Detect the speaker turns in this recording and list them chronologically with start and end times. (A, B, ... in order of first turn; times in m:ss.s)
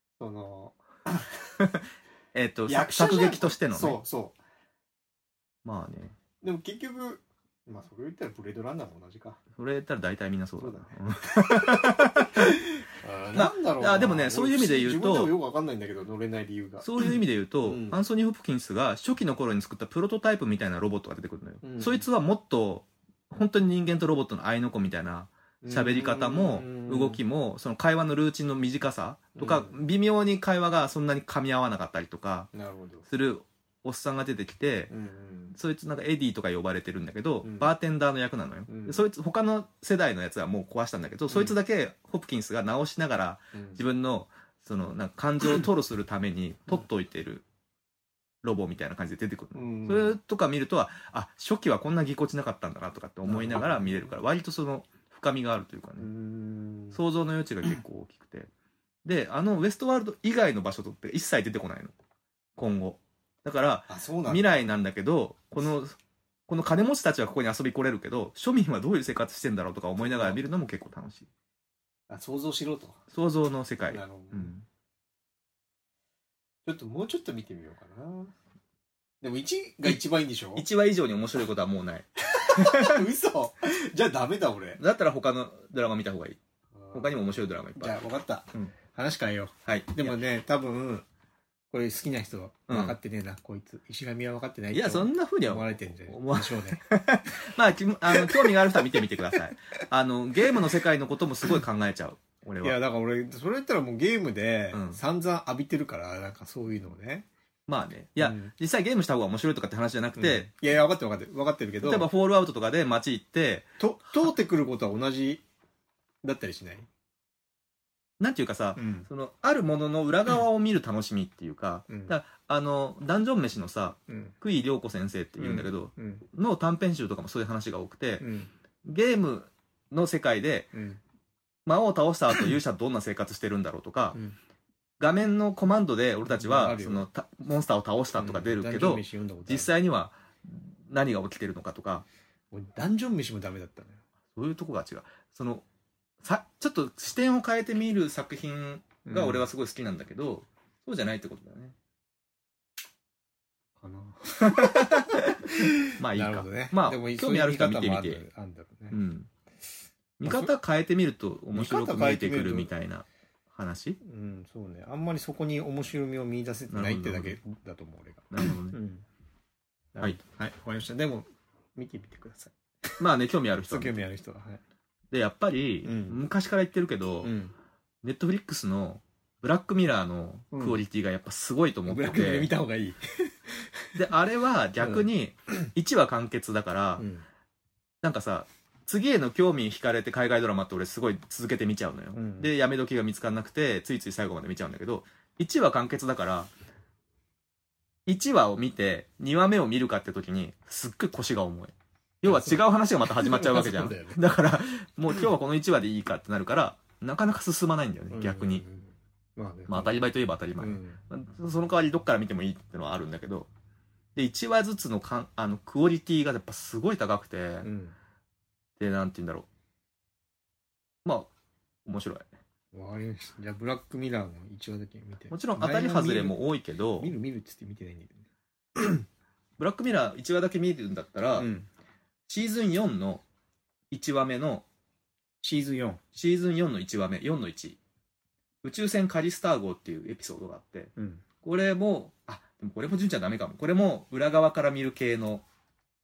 0:00.2-0:01.3 A
0:01.6-0:04.0 B
0:02.7-0:04.4 A
0:05.6-0:06.2 B
0:06.4-0:09.4 A
0:09.6-0:12.6 B
0:10.6-0:18.0 A
0:13.3-0:15.3 B
0:16.8-0:32.5 B
0:21.6-0:22.0 A
0:25.6-0:27.2 A
0:29.4-0:29.8 A
0:32.5-0:33.0 A
0:33.1-0:34.9 B
0:34.9-0:35.6 A
0:35.5-0:47.4 B
0:37.4-0:37.7 A
0:38.7-0:39.0 A
0:41.3-0:41.5 A
0:43.5-0:43.8 A
0:48.4-0:56.1 B
0:49.5-0:50.2 A
0:53.2-0:54.1 A
0:56.0-0:57.0 A
0:56.9-0:58.5 B
0:59.0-1:01.9 B
1:02.6-1:06.0 B
1:03.9-1:04.6 A
1:06.5-1:11.3 B
1:10.0-1:10.4 A
1:12.1-1:13.0 A
1:13.1-1:14.6 B
1:13.9-1:14.5 A
1:16.6-1:18.3 A
1:19.2-1:20.6 A
1:20.5-1:23.0 B
1:22.3-1:24.8 A
1:24.8-1:26.4 B
1:26.8-1:27.1 A
1:26.9-1:28.0 B
1:27.8-1:31.0 A
1:29.6-1:30.2 B
1:31.7-1:36.8 A
1:32.7-1:33.0 B
1:34.7-1:42.8 B
1:38.1-1:38.5 A
1:42.6-1:47.3 A
1:44.7-1:45.0 B
1:47.7-1:50.5 B
1:48.2-1:48.5 A
1:50.2-1:52.1 A
1:51.8-1:53.7 B
1:53.8-1:55.4 A
1:56.2-1:56.9 A
1:58.2-2:08.2 B
1:58.8-1:59.1 A
2:01.9-2:02.1 A
2:04.1-2:04.3 A
2:05.4-2:06.2 A
2:08.2-2:08.5 A
2:08.8-2:10.7 B
2:10.7-2:11.0 A
2:11.6-2:14.2 B
2:15.0-2:22.0 B
2:16.2-2:17.0 A
2:18.2-2:19.7 A
2:22.5-2:24.0 A
2:24.4-2:25.6 B
2:26.2-2:31.8 B
2:29.0-2:29.5 A
2:33.8-2:39.0 A
2:34.4-2:38.2 B
2:38.9-2:39.3 B
2:40.2-2:44.0 B
2:40.2-2:40.5 A
2:41.5-2:42.7 A
2:44.0-2:49.0 A
2:46.7-2:47.4 B
2:48.3-2:48.8 B
2:49.9-2:53.0 A
2:53.0-2:54.0 B
2:53.7-2:54.6 A
2:55.1-2:57.3 B
2:55.8-2:56.2 A
2:57.2-2:57.5 A
2:58.0-3:02.5 B
3:00.5-3:00.8 A
3:01.9-3:04.0 A
3:04.0-3:07.0 B
3:07.0-3:07.2 A
3:08.0-3:16.5 B
3:12.1-3:12.5 A
3:18.0-3:28.6 B
3:22.3-3:24.2 A
3:28.1-3:30.0 A
3:29.7-3:33.5 B
3:30.6-3:31.0 A
3:34.1-3:37.7 B
3:37.6-3:38.0 A
3:38.8-3:39.5 B
3:41.0-3:41.3 B
3:41.9-3:42.3 B
3:42.7-3:46.4 A
3:45.3-3:47.1 B
3:47.0-3:48.2 A
3:49.6-3:51.5 B
3:51.4-3:51.7 A
3:52.3-3:53.2 B
3:53.9-3:54.6 B
3:55.4-3:56.0 A
3:56.1-3:57.8 B
3:58.6-4:05.4 B
4:01.0-4:01.2 A